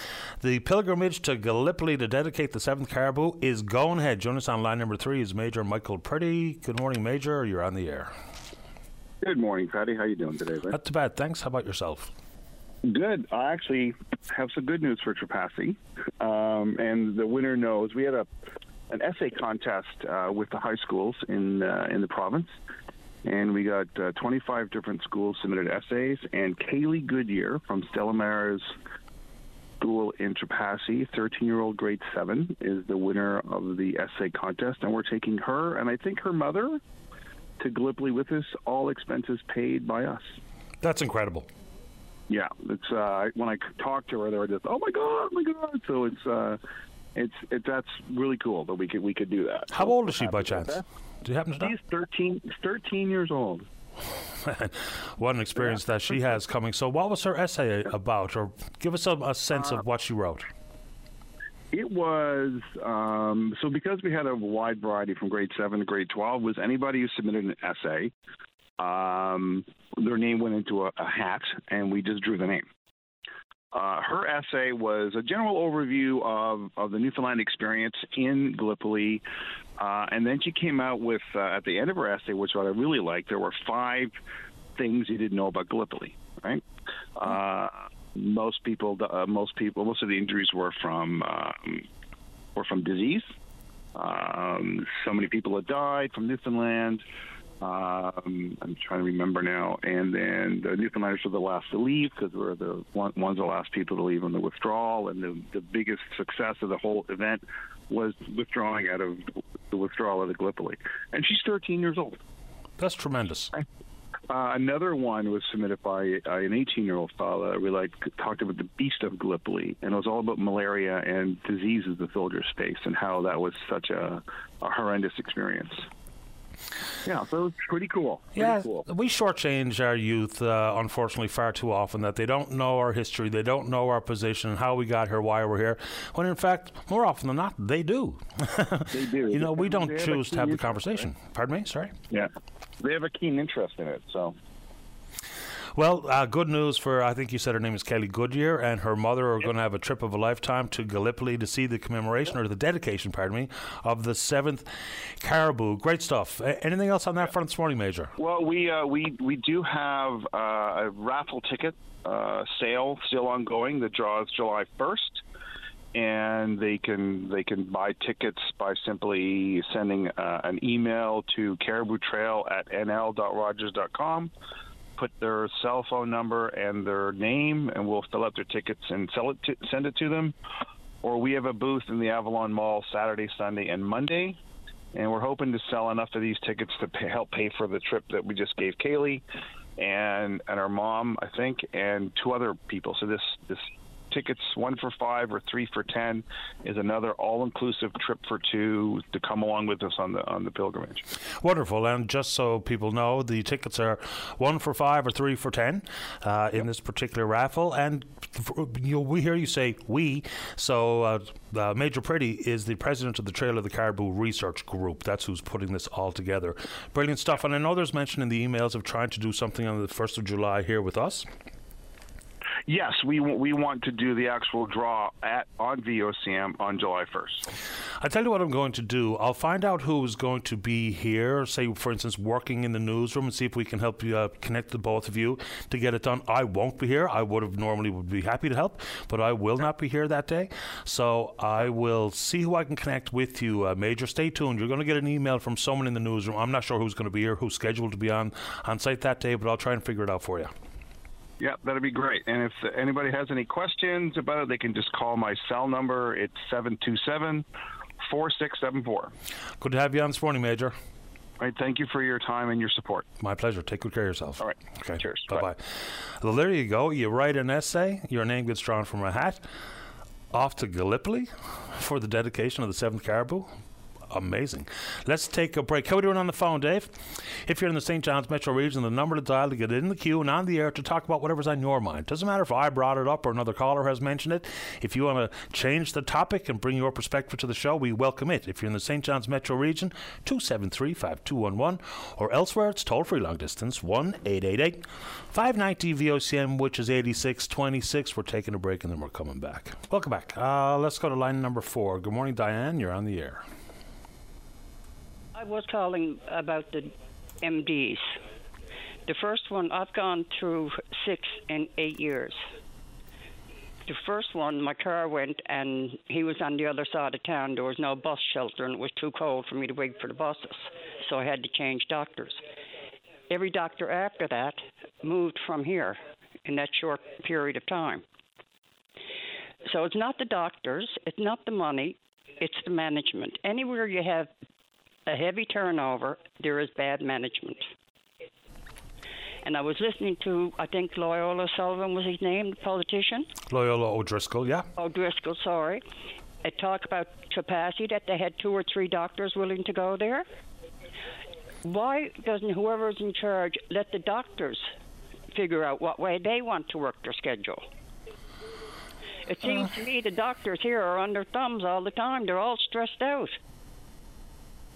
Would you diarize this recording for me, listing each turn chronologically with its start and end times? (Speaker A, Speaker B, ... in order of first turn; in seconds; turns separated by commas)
Speaker A: 0.4-8.1, Speaker B: 9.2-10.7, Speaker A: 10.7-12.1, Speaker B: 12.8-18.3, Speaker B: 18.9-22.5, Speaker B: 23.2-28.7, Speaker B: 29.8-36.8, Speaker B: 37.6-40.4, Speaker A: 40.8-41.5, Speaker B: 42.3-46.6, Speaker B: 47.1-50.8, Speaker A: 49.7-51.7, Speaker B: 51.6-53.7, Speaker A: 54.4-60.5, Speaker B: 61.7-68.1, Speaker B: 68.8-72.7, Speaker B: 73.7-79.2, Speaker B: 79.8-84.1, Speaker B: 84.8-86.6, Speaker B: 87.2-91.8, Speaker B: 92.5-93.3, Speaker B: 94.0-97.0, Speaker B: 97.6-112.2, Speaker A: 112.8-113.5, Speaker B: 114.3-125.8, Speaker B: 127.0-128.8, Speaker A: 128.3-142.0, Speaker B: 138.9-141.0, Speaker B: 142.8-144.3, Speaker A: 145.7-158.1, Speaker B: 158.2-165.2, Speaker B: 165.9-174.3, Speaker B: 175.0-180.3, Speaker B: 181.0-184.4, Speaker B: 184.9-189.2, Speaker B: 189.8-201.0, Speaker A: 201.4-221.3, Speaker B: 222.7-227.5, Speaker A: 228.0-250.5, Speaker B: 251.4-257.4, Speaker B: 258.0-259.1, Speaker A: 259.6-260.7, Speaker B: 261.4-263.1, Speaker A: 263.2-269.4, Speaker B: 264.4-265.4, Speaker A: 270.3-273.5, Speaker A: 274.1-303.4, Speaker C: 305.3-308.1, Speaker C: 309.0-312.4, Speaker C: 313.9-322.4, Speaker C: 323.3-328.0, Speaker C: 329.6-334.3, Speaker C: 335.1-337.7, Speaker C: 339.4-343.3, Speaker A: 343.5-344.7, Speaker C: 344.8-345.8, Speaker C: 346.4-350.2, Speaker C: 351.6-354.7, Speaker C: 355.3-357.6, Speaker C: 359.2-363.4